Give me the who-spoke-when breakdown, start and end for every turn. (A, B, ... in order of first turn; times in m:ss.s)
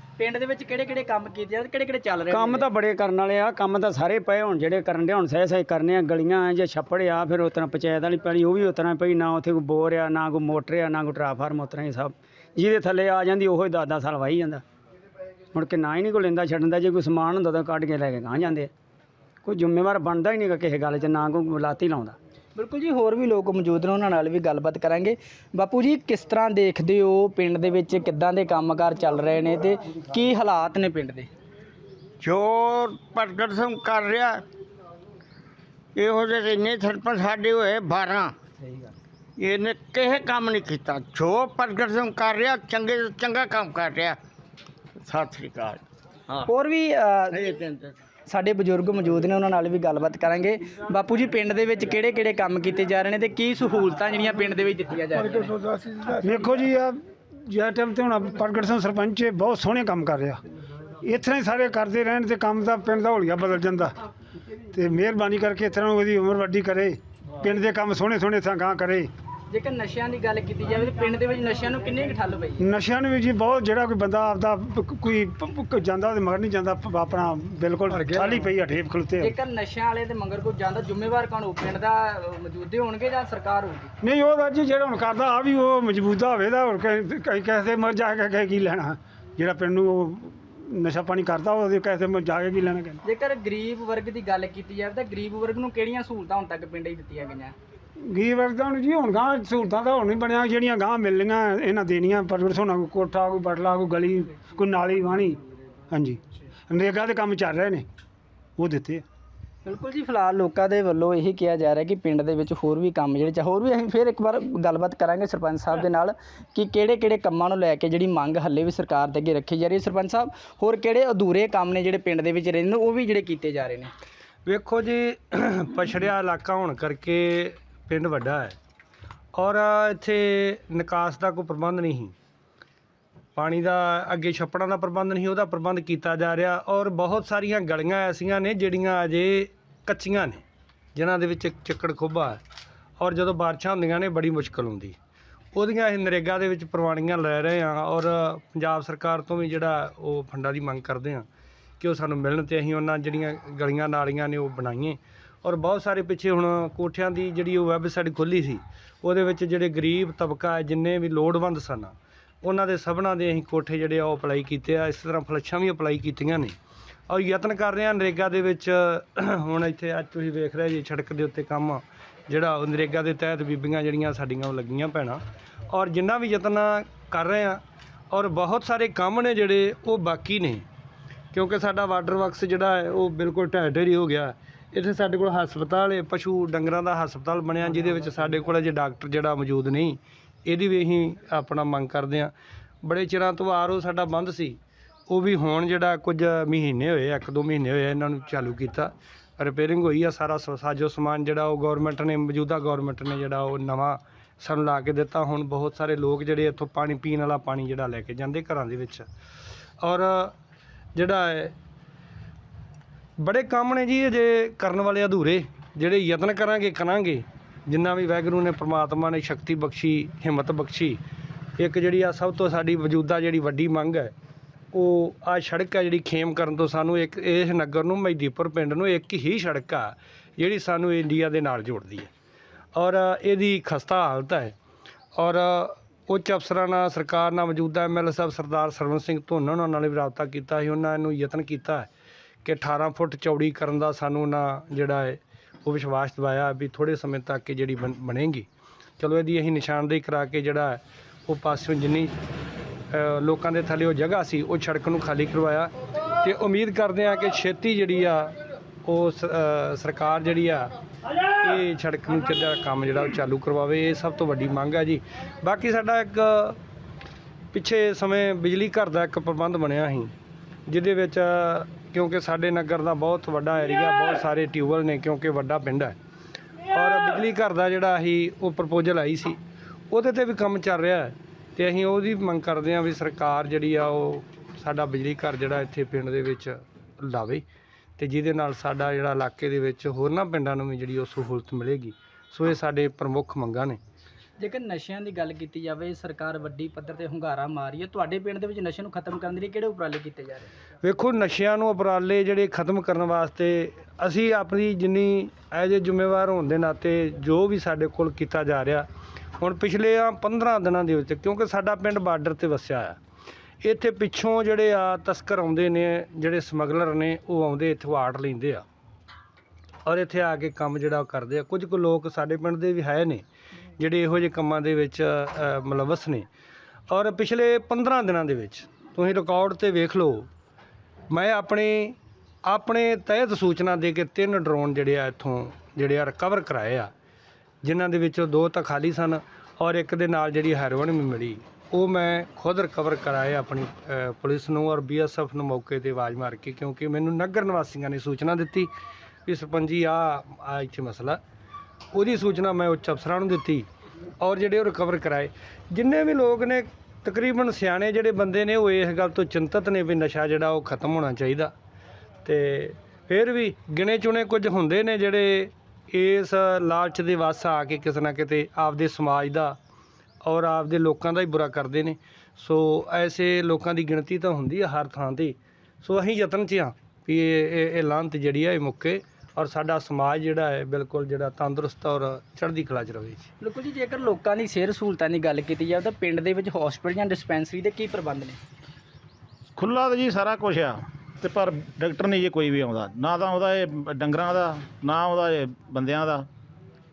0:00.2-0:02.7 A
0:02.3-0:14.6 B
0:15.5-0:18.7 B
0:19.4-0:22.2 B
0:22.6-0:31.3 A
0:32.2-0:34.4 C
0:36.0-0:38.4 C
0:39.4-0:44.2 C
0:45.0-0:46.4 C
0:46.4-0:47.4 A
0:47.3-0:47.9 C
0:48.3-0:55.6 A
0:55.5-0:56.2 C
0:56.2-0:56.9 D
0:57.5-1:00.4 D
1:01.0-1:03.9 D
1:04.7-1:09.1 D
1:09.5-1:12.6 A
1:12.6-1:19.3 D
1:17.9-1:18.4 E
1:19.2-1:23.9 A
1:24.0-1:33.0 D
1:33.0-1:37.5 A
1:38.1-1:45.4 D
1:45.9-1:47.8 D
1:48.6-1:49.0 D
1:49.6-2:03.9 A
2:04.4-2:08.6 E
2:09.3-2:12.1 E
2:13.4-2:20.4 E
2:20.9-2:22.4 E
2:23.0-2:25.0 E
2:25.5-2:31.3 E
2:31.8-2:46.6 E
2:47.1-3:00.6 E
3:01.3-3:12.3 E
3:12.8-3:14.6 E
3:15.1-3:29.1 E
3:29.8-3:30.3 E
3:30.9-3:31.5 E
3:33.2-3:41.0 E
3:41.6-3:44.1 E
3:44.7-3:52.1 E
3:52.7-3:54.5 E
3:55.2-4:01.9 E
4:02.4-4:08.5 E
4:09.0-4:12.1 E
4:12.9-4:20.7 E
4:21.4-4:26.6 E
4:27.5-4:30.1 E
4:30.7-4:36.0 E
4:36.7-4:39.4 E
4:39.9-4:47.4 E
4:48.0-4:53.8 E
4:54.4-5:00.5 A
5:00.8-5:08.9 E
5:09.4-5:13.0 E
5:13.6-5:18.6 E
5:19.8-5:23.2 E
5:23.8-5:26.3 E
5:26.9-5:30.3 E
5:31.1-5:36.9 E
5:37.6-5:48.7 E
5:49.2-5:51.2 E
5:51.9-5:53.7 E
5:54.2-6:01.5 E
6:02.2-6:09.6 E
6:10.2-6:23.3 E
6:23.4-6:28.4 A
6:29.6-6:36.3 F